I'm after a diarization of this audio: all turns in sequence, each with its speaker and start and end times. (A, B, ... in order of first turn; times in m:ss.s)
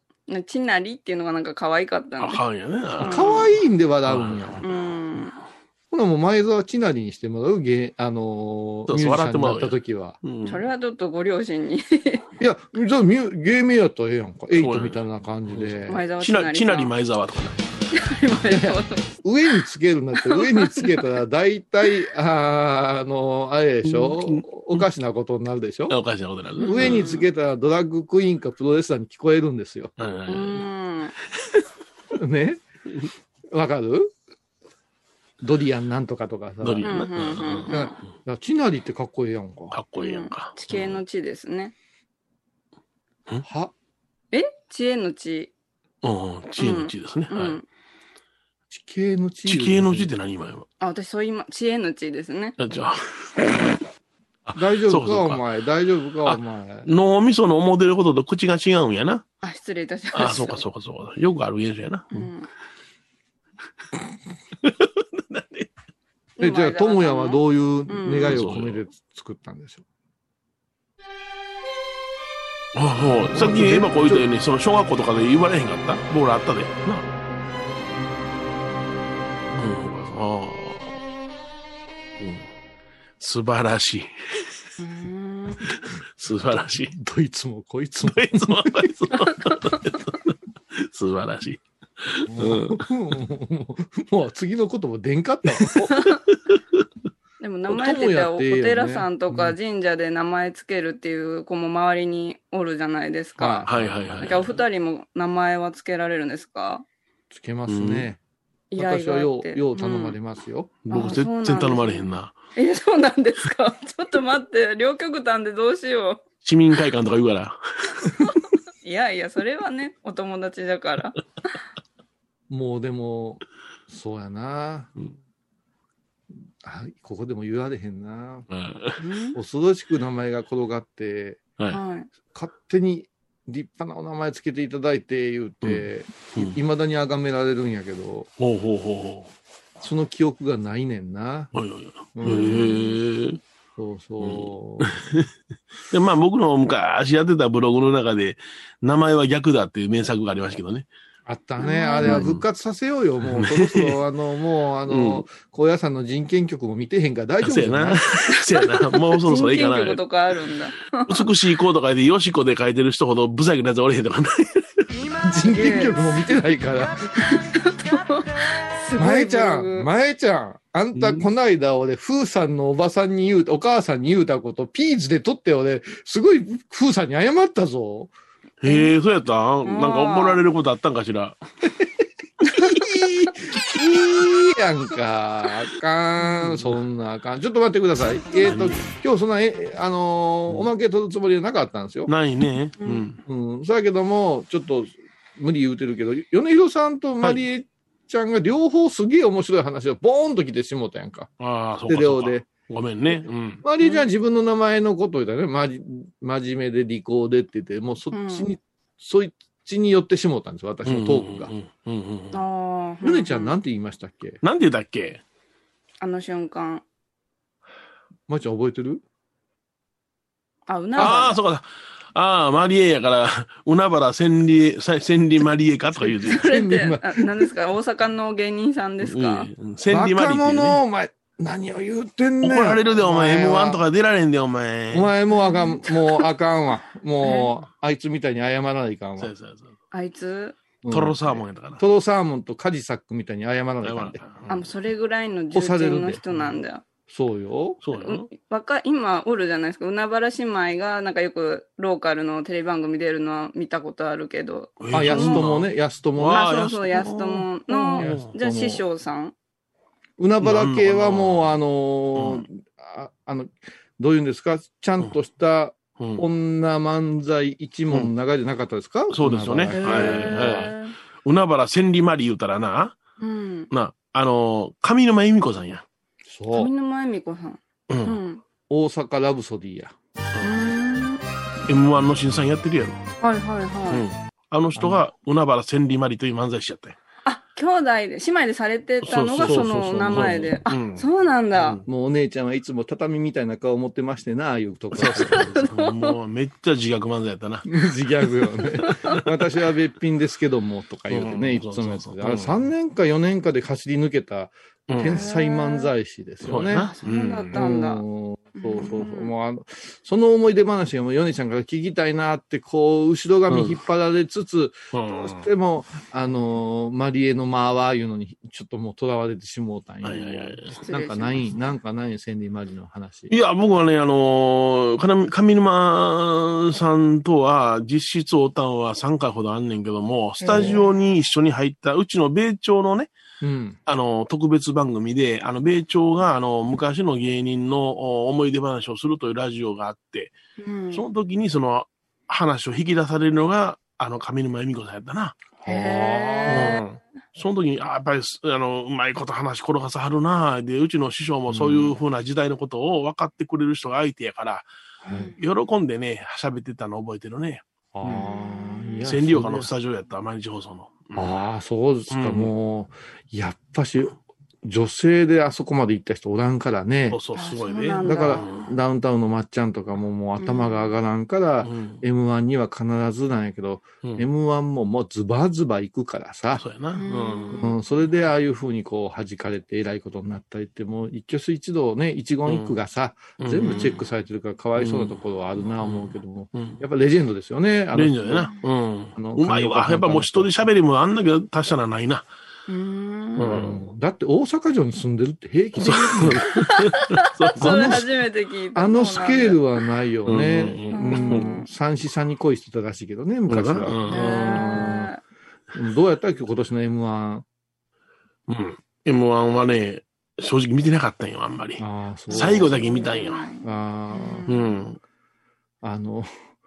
0:00.3-0:02.4 A
0:02.2-0:03.3 B
0:03.0-0:03.5 A
0:03.0-0:04.7 C
0:04.0-0:04.6 B
0:04.6-0:05.4 A
0:05.9-0:10.2 C
0:08.9-0:10.6 B
0:10.4-0:12.3 A
0:12.4-0:16.0 C
0:14.6-0:15.0 B
0:15.5-0:17.7 B
0:15.9-0:16.9 A
0:17.9-0:19.1 A
0:18.5-0:26.0 C
0:20.2-0:21.2 A
0:23.8-0:24.8 B
0:25.9-0:27.1 B
0:26.6-0:27.3 A
0:26.7-0:29.9 C
0:30.0-0:30.6 B
0:30.3-0:31.1 A
0:32.1-0:32.6 C
0:33.5-0:34.1 C
0:35.4-0:37.0 C
0:36.6-0:37.8 B
0:36.8-0:37.9 A
0:37.7-0:39.8 C
0:39.7-0:41.0 B
0:40.0-0:41.7 A
0:43.4-0:43.7 C
0:44.3-0:45.5 A
0:46.0-0:47.6 B
0:46.6-0:47.6 A
0:48.7-0:50.1 C
0:49.5-0:50.7 B
0:50.8-0:52.6 A
0:52.6-0:53.3 B
0:54.5-0:55.4 B
0:54.5-0:56.9 C
0:56.3-0:59.3 B
0:59.4-1:00.6 A
1:00.1-1:02.3 B
1:02.1-1:02.5 A
1:04.6-1:05.7 B
1:06.4-1:08.4 A
1:06.4-1:09.8 C
1:08.3-1:08.8 B
1:12.8-1:17.1 B
1:13.3-1:14.3 C
1:19.6-1:21.0 B
1:22.2-1:22.4 B
1:23.2-1:24.1 B
1:24.8-1:25.7 A
1:26.2-1:27.0 B
1:26.5-1:28.9 C
1:28.0-1:32.8 B
1:32.3-1:35.9 C
1:37.4-1:43.7 A
1:37.7-1:39.6 C
1:43.4-1:44.3 C
1:43.7-1:44.5 B
1:44.2-1:46.8 A
1:47.3-1:48.2 C
1:47.7-1:48.1 B
1:48.7-1:50.2 A
1:48.8-1:50.8 C
1:50.8-1:52.4 B
1:50.9-1:56.2 A
1:56.4-1:58.1 B
1:58.8-2:01.2 A
2:02.5-2:04.9 C
2:06.6-2:08.5 C
2:08.5-2:09.0 B
2:09.0-2:09.4 A
2:09.4-2:11.4 C
2:11.7-2:12.1 A
2:12.3-2:18.3 C
2:15.6-2:16.6 B
2:18.4-2:19.3 B
2:19.8-2:21.5 C
2:21.5-2:23.4 B
2:22.2-2:22.7 C
2:22.2-2:23.0 A
2:23.8-2:25.0 C
2:24.2-2:25.3 B
2:25.9-2:30.9 B
2:31.3-2:38.0 C
2:31.6-2:32.2 A
2:32.0-2:32.4 B
2:33.3-2:34.0 B
2:34.9-2:35.2 B
2:37.4-2:40.0 B
2:39.2-2:41.1 A
2:41.1-2:44.8 B
2:45.2-2:47.1 C
2:45.4-2:46.1 A
2:47.3-2:49.9 A
2:49.0-2:58.1 C
2:51.0-2:51.3 B
2:58.6-3:01.4 B
2:59.6-3:00.4 A
3:02.4-3:02.8 A
3:02.6-3:12.1 C
3:08.4-3:08.9 B
3:12.1-3:13.2 B
3:13.3-3:21.3 C
3:21.4-3:23.6 B
3:21.9-3:22.5 C
3:23.1-3:31.5 C
3:23.8-3:24.1 A
3:28.1-3:28.5 A
3:30.8-3:32.4 B
3:32.3-3:33.6 A
3:33.0-3:34.4 C
3:34.4-3:35.2 B
3:36.0-3:36.8 A
3:38.3-3:39.0 C
3:40.7-3:41.4 A
3:41.0-3:41.3 C
3:41.0-3:46.5 B
3:46.1-3:49.5 A
3:46.3-3:47.5 C
3:49.0-3:50.8 B
3:49.9-3:53.8 C
3:52.4-3:55.1 B
3:54.9-3:59.3 C
3:55.3-3:56.3 A
3:57.2-3:57.5 A
3:59.2-3:59.8 B
3:59.9-4:00.6 A
4:00.8-4:04.2 C
4:00.9-4:01.8 B
4:03.8-4:04.7 B
4:04.5-4:06.8 A
4:05.5-4:06.2 C
4:07.1-4:07.8 C
4:07.8-4:08.3 B
4:08.0-4:15.5 A
4:14.8-4:18.3 B
4:14.9-4:16.5 C
4:16.3-4:19.4 A
4:17.7-4:18.8 C
4:20.2-4:30.7 C
4:20.4-4:21.6 B
4:22.2-4:22.4 B
4:26.0-4:26.2 B
4:29.1-4:30.7 B
4:29.8-4:31.0 A
4:31.2-4:33.0 B
4:33.2-4:33.7 A
4:33.7-4:35.8 B
4:36.3-4:36.7 C
4:36.5-4:38.4 A
4:37.9-4:38.2 B
4:38.7-4:40.0 C
4:40.4-4:41.2 A
4:41.7-4:43.0 B
4:43.2-4:44.0 A
4:43.9-4:47.0 B
4:44.8-4:45.0 C
4:47.2-4:51.8 A
4:49.0-4:51.9 B
4:49.4-4:50.5 C
4:51.8-4:55.6 C
4:54.9-4:57.7 B
4:55.3-4:56.1 A
4:57.6-5:06.9 C
5:01.1-5:02.7 B
5:04.9-5:05.2 B
5:05.0-5:05.9 A
5:06.4-5:07.6 B
5:06.8-5:08.0 A
5:07.5-5:23.3 C
5:08.6-5:09.3 A
5:13.5-5:13.8 B
5:14.9-5:15.5 B
5:20.0-5:20.7 B
5:20.7-5:21.5 A
5:23.3-5:33.1 B
5:30.4-5:30.9 A
5:30.5-5:30.8 C
5:33.4-5:33.8 C
5:33.9-5:40.4 B
5:40.6-5:41.0 A
5:40.9-5:45.5 B
5:45.6-5:46.8 C
5:45.6-5:46.8 A
5:46.5-5:54.7 B
5:51.5-5:52.0 C
5:55.0-5:55.3 C
5:55.1-5:55.4 A
5:55.4-5:58.2 B
5:58.0-5:59.7 C
5:58.1-5:59.1 A
5:59.0-6:01.3 B
6:01.2-6:07.2 C
6:02.1-6:02.5 B
6:07.1-6:08.7 B
6:07.4-6:08.5 A
6:08.0-6:16.7 C
6:10.4-6:10.9 A
6:11.6-6:12.0 B
6:16.6-6:17.6 B
6:17.0-6:17.7 A
6:17.5-6:28.5 C
6:22.5-6:22.8 B
6:23.4-6:24.0 B
6:24.8-6:25.2 B
6:25.8-6:26.8 B
6:27.9-6:32.3 B
6:29.2-6:30.5 C
6:32.7-6:33.5 A
6:33.4-6:33.8 B
6:33.4-6:36.7 C
6:35.8-6:38.0 B
6:36.6-6:37.0 A
6:37.5-6:39.6 A
6:37.6-6:38.1 C
6:38.8-6:45.1 C
6:40.3-6:41.5 B
6:40.9-6:41.7 A
6:43.5-6:44.6 B
6:44.1-6:45.2 A
6:45.7-6:47.5 C
6:48.5-6:53.4 B
6:51.8-6:53.1 C
6:52.3-6:54.7 A
6:53.6-6:54.5 C
6:54.5-6:55.0 B
6:55.8-6:56.3 C